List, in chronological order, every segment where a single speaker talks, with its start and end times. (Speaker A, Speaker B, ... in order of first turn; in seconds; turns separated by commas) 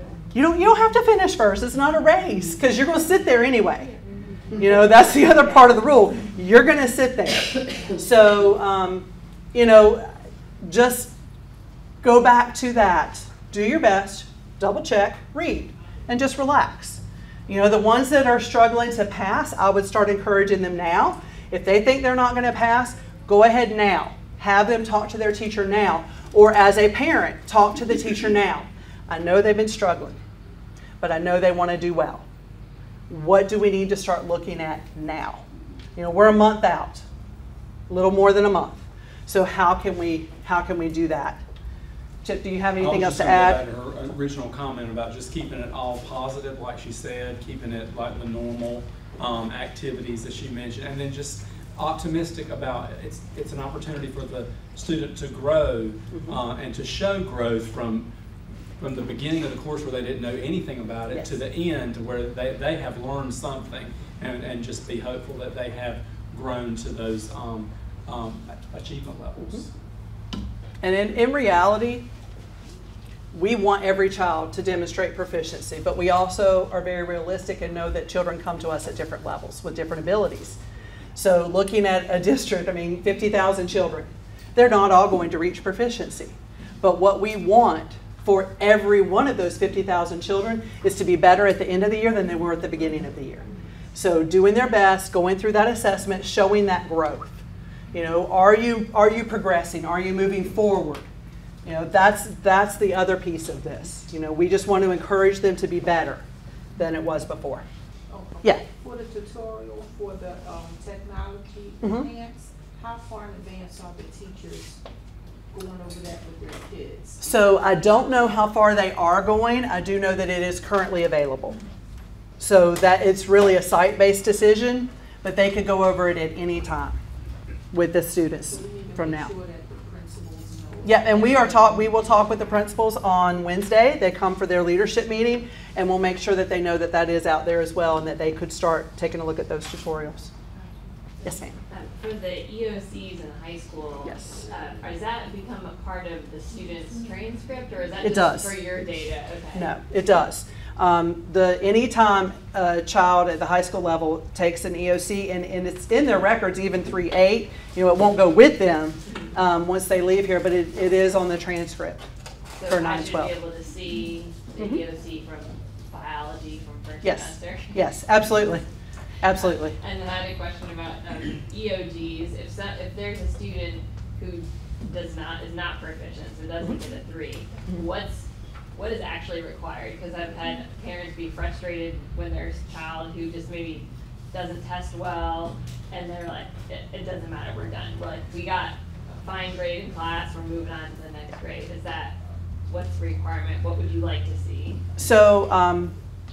Speaker A: 0.3-3.9, Speaker A: 4.6-11.1, Speaker A: 12.0-30.2, Speaker A: 31.0-32.2, Speaker A: 33.1-35.4, Speaker A: 36.0-37.0, Speaker A: 37.9-41.4, Speaker A: 42.2-43.6, Speaker B: 42.8-58.1, Speaker B: 58.8-69.7, Speaker A: 61.1-61.4, Speaker A: 70.8-72.1, Speaker A: 73.3-80.6, Speaker A: 81.2-97.4, Speaker A: 97.9-101.1, Speaker A: 101.7-106.2, Speaker A: 106.8-107.7, Speaker C: 108.1-114.8, Speaker A: 111.8-112.1, Speaker C: 115.5-117.3, Speaker A: 117.2-121.6, Speaker A: 122.4-127.0, Speaker A: 127.7-129.3, Speaker C: 128.4-131.9, Speaker A: 130.8-140.3, Speaker C: 140.5-140.9, Speaker A: 141.2-141.6, Speaker D: 141.7-149.7, Speaker A: 144.0-144.4, Speaker A: 148.0-148.6, Speaker A: 149.5-162.1, Speaker D: 162.6-167.8, Speaker A: 162.7-163.3, Speaker A: 167.0-168.6, Speaker A: 169.2-169.8, Speaker D: 169.8-194.8, Speaker A: 195.0-195.9